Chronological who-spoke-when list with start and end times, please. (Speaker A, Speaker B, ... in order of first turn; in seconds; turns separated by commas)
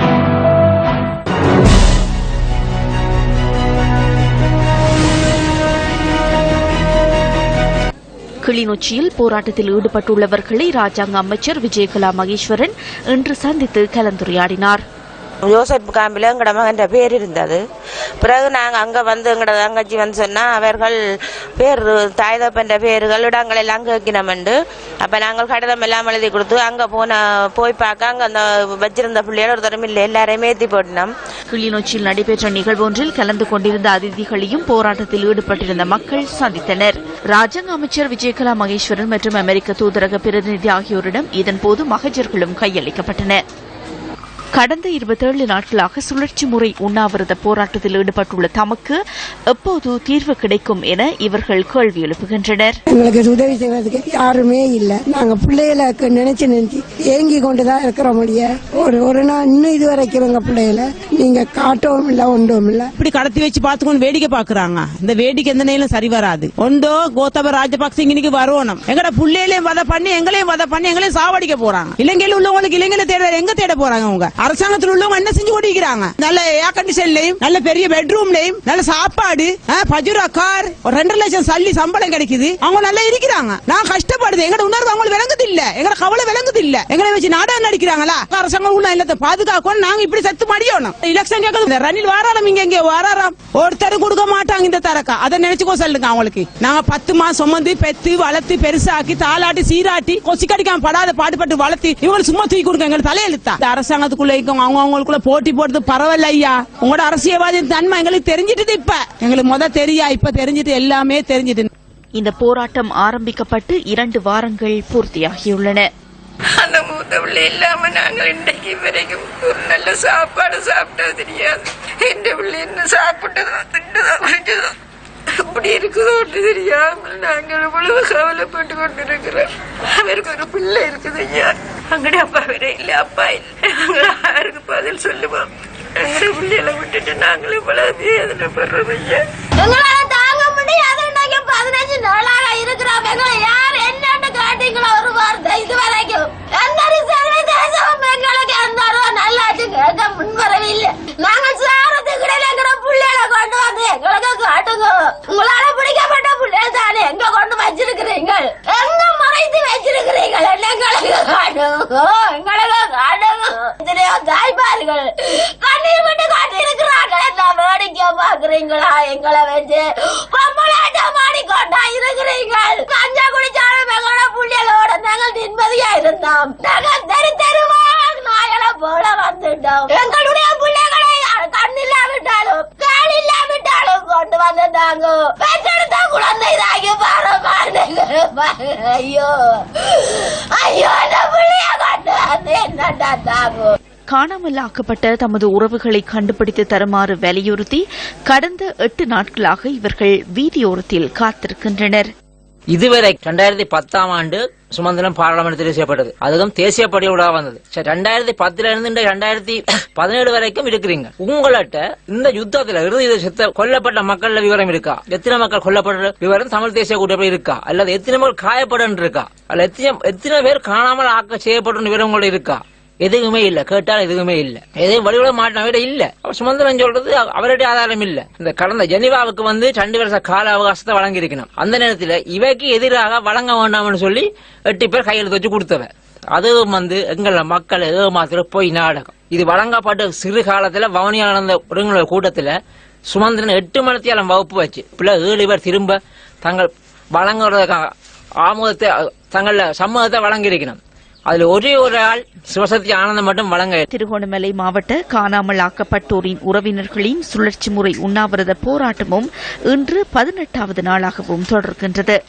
Speaker A: 8.4-14.8, Speaker B: 15.4-17.6, Speaker B: 18.2-21.0, Speaker B: 21.6-31.1, Speaker A: 31.5-43.4, Speaker A: 44.5-49.0, Speaker A: 49.5-52.8, Speaker C: 52.9-62.9, Speaker D: 63.0-111.7, Speaker A: 112.2-115.9, Speaker E: 116.6-124.7, Speaker E: 125.4-135.5, Speaker E: 136.0-139.2, Speaker F: 139.6-193.8, Speaker A: 194.1-202.1, Speaker G: 202.7-242.5, Speaker G: 243.1-247.9, Speaker G: 248.4-253.8, Speaker A: 253.9-262.2